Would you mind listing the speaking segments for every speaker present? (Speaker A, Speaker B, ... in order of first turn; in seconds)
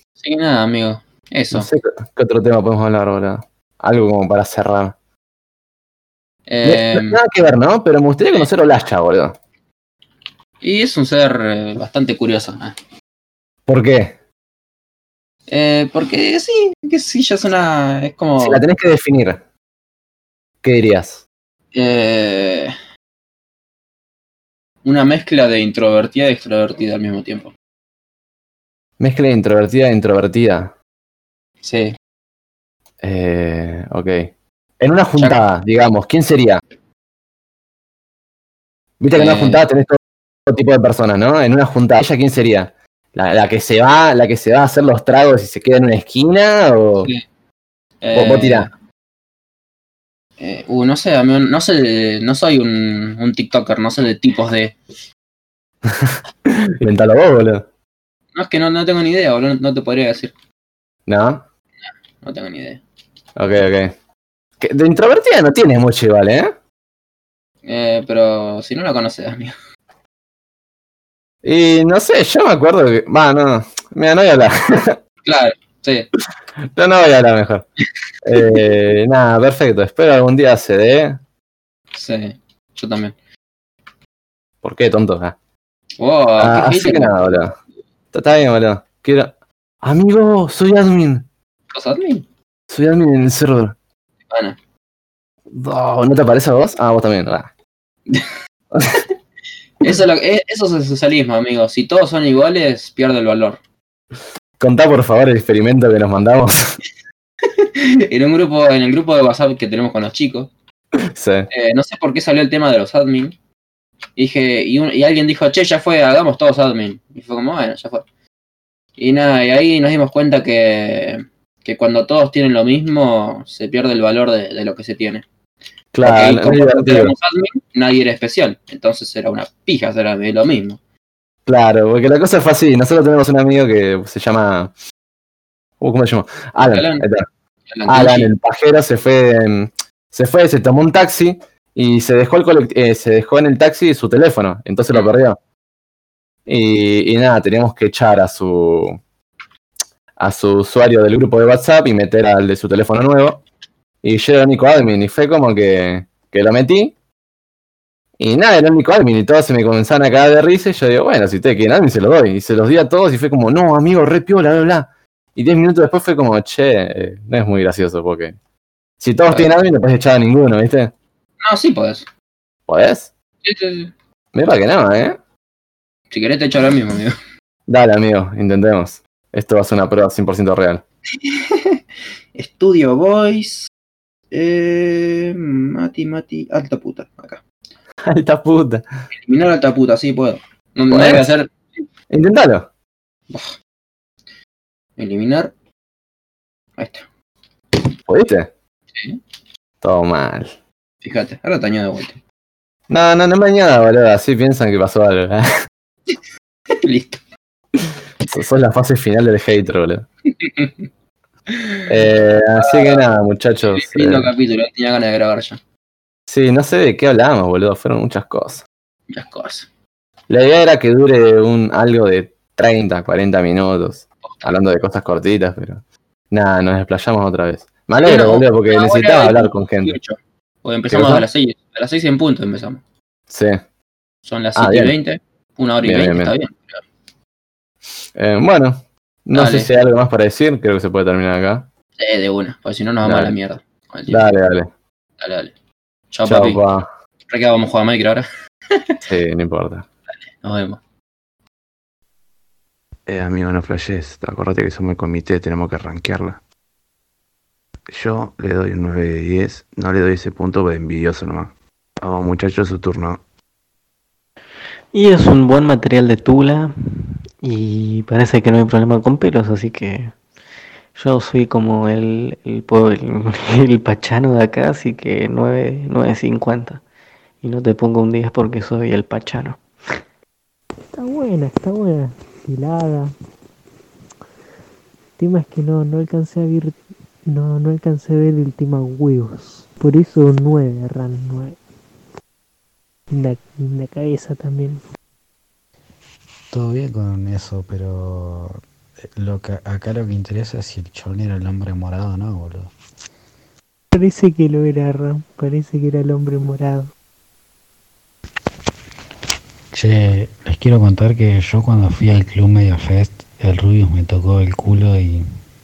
Speaker A: 0.2-1.7, 6.5-7.2, 10.6-12.8, 15.5-18.6, 21.7-22.7, 24.8-27.5, 31.6-31.9, 39.1-39.6, 48.0-48.7, 50.4-54.8, 58.3-60.3, 62.2-62.8, 67.6-69.5, 75.2-76.1, 81.9-83.1, 86.0-87.2, 91.7-92.2, 94.3-94.6, 99.8-103.6, 107.6-110.5, 111.5-113.3, 114.2-118.0, 119.0-125.2, 126.0-130.8, 136.6-137.1, 137.7-138.3, 171.4-172.1, 173.4-173.9, 176.1-177.1, 181.2-181.8, 182.3-183.7, 184.3-187.4, 189.1-191.8, 193.3-193.6, 195.0-195.5, 196.8-197.0, 198.9-199.2, 201.0-202.2, 206.8-207.2, 210.4-210.8, 211.5-211.8, 212.6-213.1, 213.7-215.6, 219.1-219.7, 224.2-224.5, 228.0-232.8, 234.2-236.8, 239.3-239.7, 242.0-244.3, 245.2-245.5, 246.1-246.6, 247.3-249.0, 250.4-250.8
Speaker B: 1.5-4.9, 6.6-9.4, 13.7-14.2, 18.4-19.4, 20.6-21.2, 29.0-30.7, 33.0-36.6, 39.0-47.1, 48.1-48.7, 55.8-57.6, 61.1-61.4, 63.4-63.9, 64.6-66.5, 71.4-75.0, 76.7-77.7, 78.2-81.2, 84.6-85.3, 86.4-87.5, 88.1-91.2, 92.7-93.8, 95.5-97.5, 98.7-99.0, 104.6-106.8, 111.0-111.5, 125.9-127.1, 131.4-134.7, 135.8-137.2, 137.9-145.4, 146.4-149.0, 150.2-153.4, 154.0-156.9, 158.2-168.3, 169.0-170.9, 172.7-173.1, 174.3-175.2, 177.7-180.8, 188.0-188.9, 190.9-191.3, 192.1-192.7, 198.1-198.5, 199.8-200.5, 202.9-205.5, 207.8-210.1, 211.9-214.3, 216.3-218.6, 220.3-229.9, 230.9-231.2, 233.3-233.6, 234.6-234.9, 235.8-236.3, 238.1-241.7, 243.0-243.3, 244.1-244.7, 246.2-246.9, 249.1-249.8
Speaker C: 253.1-256.4, 257.9-263.2
Speaker D: 264.9-270.1, 270.9-276.8, 277.4-279.6
Speaker E: 280.9-283.1, 285.2-291.6, 293.1-294.8, 303.9-306.9
Speaker F: 296.5-302.7, 309.7-315.2